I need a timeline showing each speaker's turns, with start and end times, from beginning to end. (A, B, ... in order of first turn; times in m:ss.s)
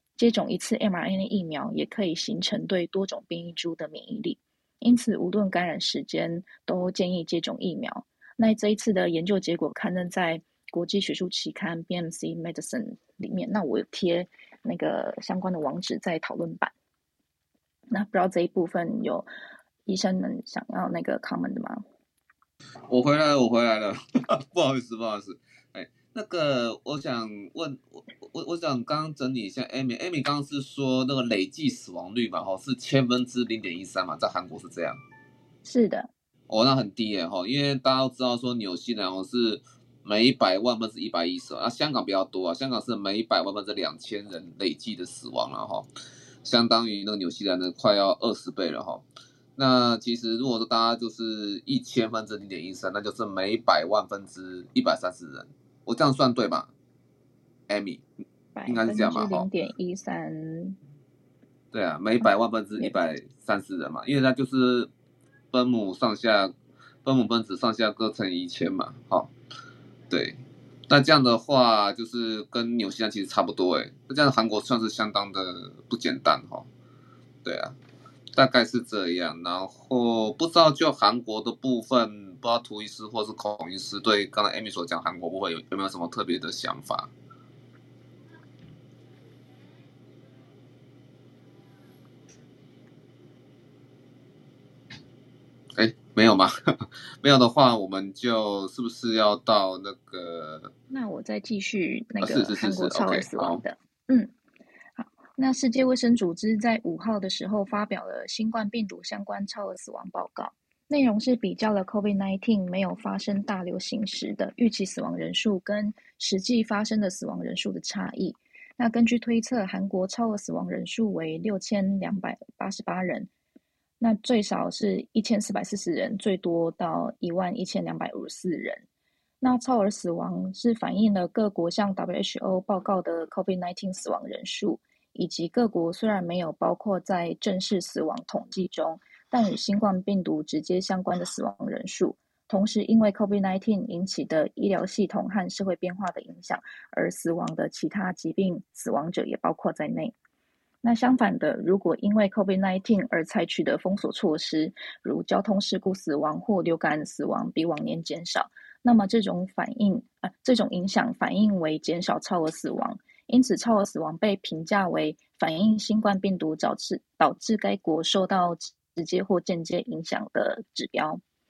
0:00.2-0:16.7 A
0:17.9-0:19.3 A
0:19.9-0:21.8 A
0:22.9-0:35.0 B
0:35.6-0:36.1 A
0:36.5-0:45.9 B
0:46.4-0:49.0 B
0:49.6-0:56.7 B
0:57.7-0:58.0 B
0:58.6-1:00.8 A
0:58.7-0:59.5 B
1:01.7-1:04.9 B
1:05.5-1:09.3 B
1:10.1-1:16.7 B
1:17.4-1:17.8 B
1:18.4-1:27.1 B
1:35.8-1:40.7 B
1:40.9-1:44.3 A
1:42.2-1:43.6 B
1:45.0-2:03.3 A
2:04.0-2:08.8 A
2:09.4-2:30.1 A
2:30.8-2:51.2 A